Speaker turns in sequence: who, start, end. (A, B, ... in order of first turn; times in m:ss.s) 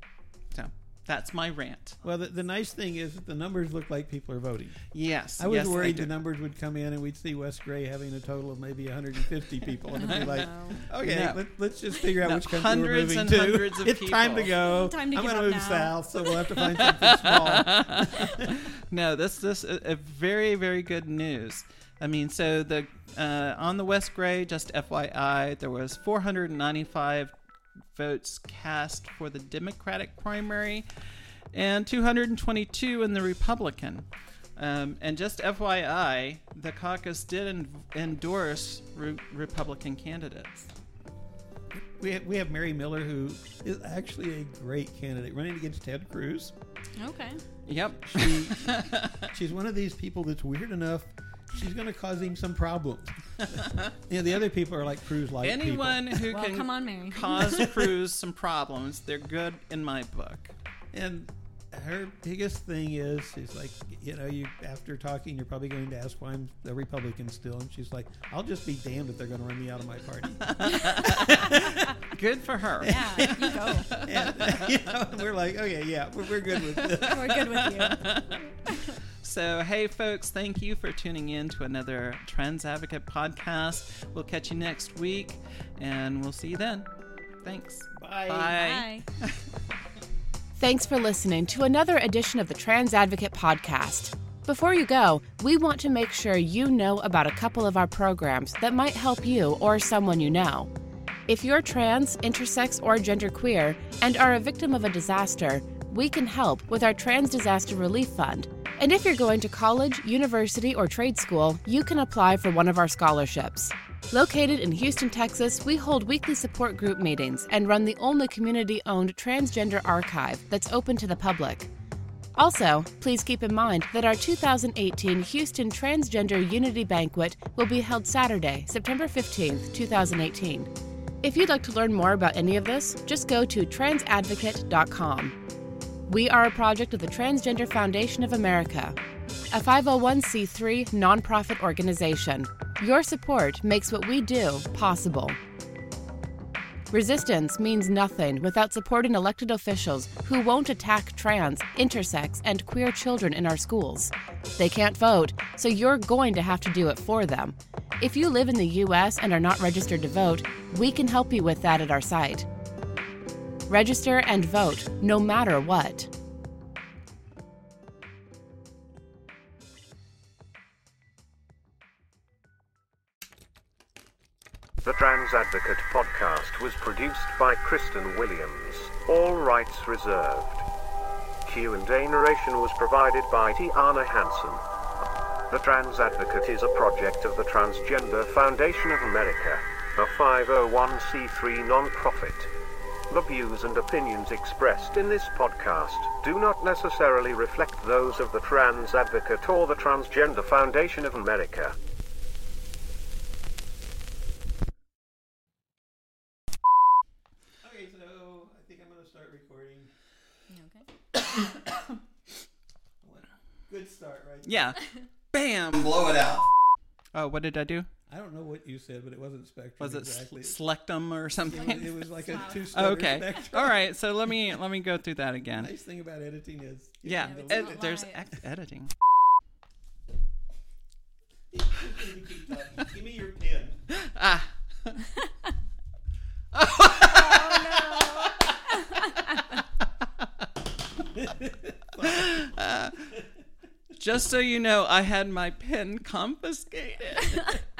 0:00.5-0:02.0 A
0:02.0-0:04.9 B
0:04.9-0:06.1 A
0:05.4-0:18.5 B
0:10.0-0:10.9 C
0:10.0-0:11.4 A
0:12.2-0:14.5 A
0:14.6-0:16.3 C
0:16.9-0:27.3 A
0:27.9-0:30.9 A
0:31.5-0:40.7 A
0:41.7-0:46.6 B
0:47.0-0:47.4 C
0:47.7-0:49.3 A
0:48.1-0:56.2 B
0:53.5-0:53.9 A
0:55.4-1:00.5 A
0:56.3-0:57.5 C
0:57.4-0:57.9 B
1:00.9-1:12.0 B
1:10.4-1:11.5 A
1:10.7-1:11.8 C
1:12.1-1:14.9 A
1:12.8-1:13.9 C
1:12.8-1:17.4 B
1:16.5-1:18.5 A
1:17.0-1:18.0 C
1:19.2-1:26.9 A
1:27.4-1:28.9 A
1:27.9-1:28.6 B
1:28.5-1:29.1 C
1:30.6-1:40.7 D
1:41.3-2:01.7 D
2:02.4-2:10.7 D
2:11.2-2:15.4 D
2:16.1-2:19.0 D
2:19.5-2:25.4 D
2:26.9-2:42.5 D
2:43.7-2:46.1 D
2:54.8-3:00.6 E
3:01.4-3:04.6 E
3:05.5-3:12.5 E
3:13.1-3:21.8 E
3:27.6-3:29.9 B
3:30.5-3:30.9 C
3:33.0-3:34.8 B
3:34.4-3:36.5 A
3:37.1-3:37.9 A
3:38.1-3:40.6 B
3:39.8-3:42.0 A
3:41.5-3:43.8 B
3:41.5-3:42.7 C
3:42.7-3:45.7 A
3:45.6-3:47.9 B
3:47.0-3:48.9 A
3:47.2-3:48.2 C
3:51.5-3:53.8 B
3:53.9-3:55.0 A
3:56.5-3:58.5 A
3:57.3-3:58.3 C
3:58.8-3:59.4 C
4:01.1-4:02.5 B
4:02.0-4:03.1 A
4:04.0-4:07.5 A
4:07.3-4:07.6 C